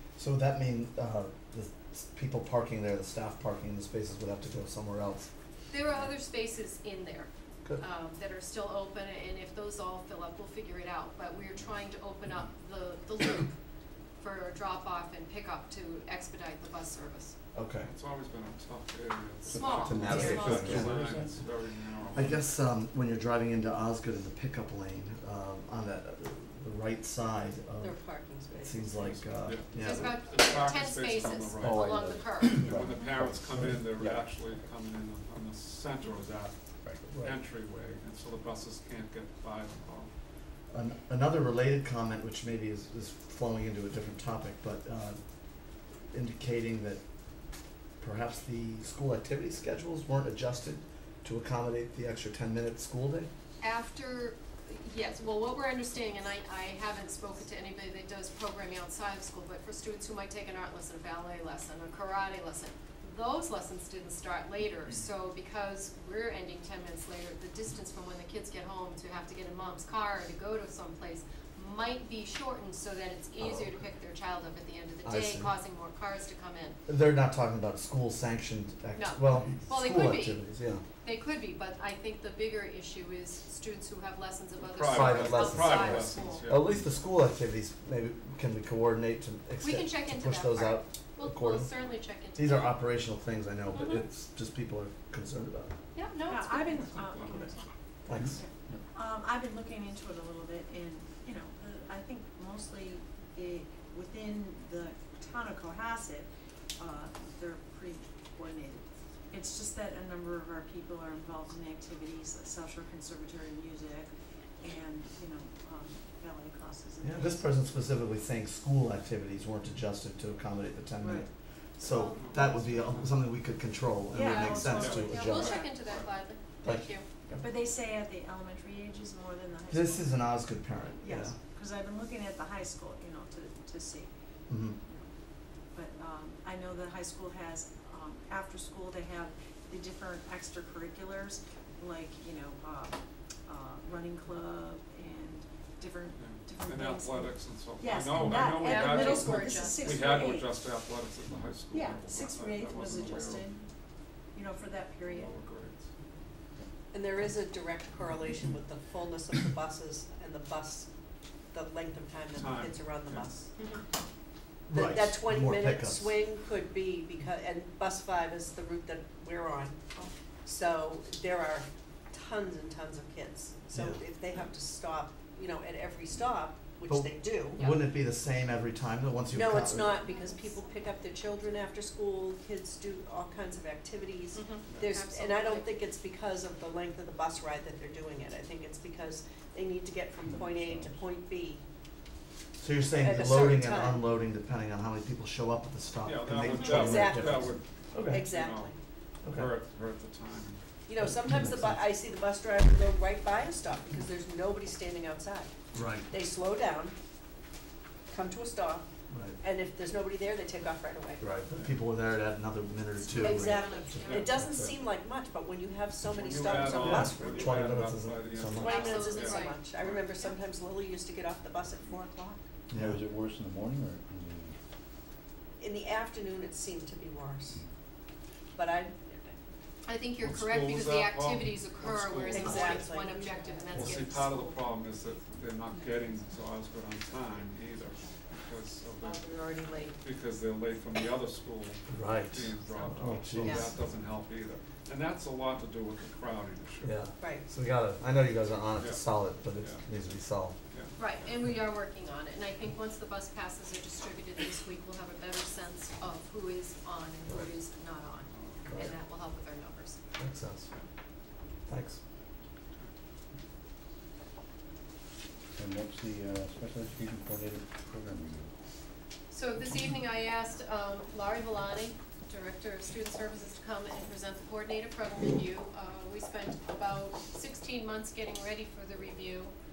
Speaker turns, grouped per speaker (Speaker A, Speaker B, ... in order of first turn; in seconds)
Speaker A: 0.2-5.3, 17.5-17.9, 19.8-21.2, 22.1-28.0, 28.5-30.2, 40.7-45.2, 46.1-47.0, 48.0-53.3, 75.0-75.5, 76.9-80.8, 84.9-91.8, 92.3-95.7, 98.0-98.3, 117.0-125.6, 126.6-127.4, 129.7-131.3, 134.5-134.8, 164.7-166.2, 173.7-174.0, 176.9-180.0, 192.6-198.3, 199.2-199.5, 201.0-201.8, 205.7-206.1, 209.1-209.4, 211.2-214.8, 216.5-218.9, 222.7-223.0, 241.9-243.8, 246.8-250.6, 258.7-258.9, 260.2-260.7, 261.7-262.0
Speaker B: 5.7-13.6, 14.2-17.3, 19.4-20.8, 29.8-32.9, 53.6-76.8, 79.0-80.4, 81.0-86.4, 89.6-92.7, 93.7-94.0, 95.9-97.0, 121.8-122.5, 124.2-127.0, 148.6-150.0, 163.6-163.8, 177.6-177.8, 184.3-185.7, 213.0-214.4, 218.6-219.7, 229.8-234.6, 250.9-260.0, 269.3-279.5
Speaker C: 17.8-22.4, 29.0-36.6, 37.2-40.1, 84.6-86.8, 96.9-97.6, 122.2-123.2, 124.7-126.1, 146.2-153.5, 155.0-155.9, 162.3-163.4, 196.0-198.7, 199.3-200.6, 211.5-211.8, 216.1-220.1, 230.2-232.9, 233.7-239.2, 240.0-247.0, 248.8-249.0, 249.6-249.8, 250.7-250.9, 258.3-258.7
Speaker D: 19.5-21.4, 31.6-34.2, 36.8-37.1, 190.2-191.0, 222.7-224.6, 265.6-268.5
Speaker E: 20.5-20.9, 27.8-29.1, 156.9-160.9, 161.5-163.5, 164.7-169.8, 170.4-177.7, 179.3-191.6, 192.9-194.1, 196.5-197.5, 198.1-198.7, 200.9-205.5, 206.1-206.9, 208.1-208.8, 209.4-211.2, 213.2-217.6, 218.5-222.5, 225.6-227.6, 228.6-229.4, 232.3-233.8, 243.4-243.8, 247.2-247.5
Speaker F: 96.2-97.6, 98.3-117.6, 121.0-121.3, 124.1-125.7, 127.4-130.2, 131.0-134.1, 135.7-150.6, 151.7-153.7, 154.3-155.3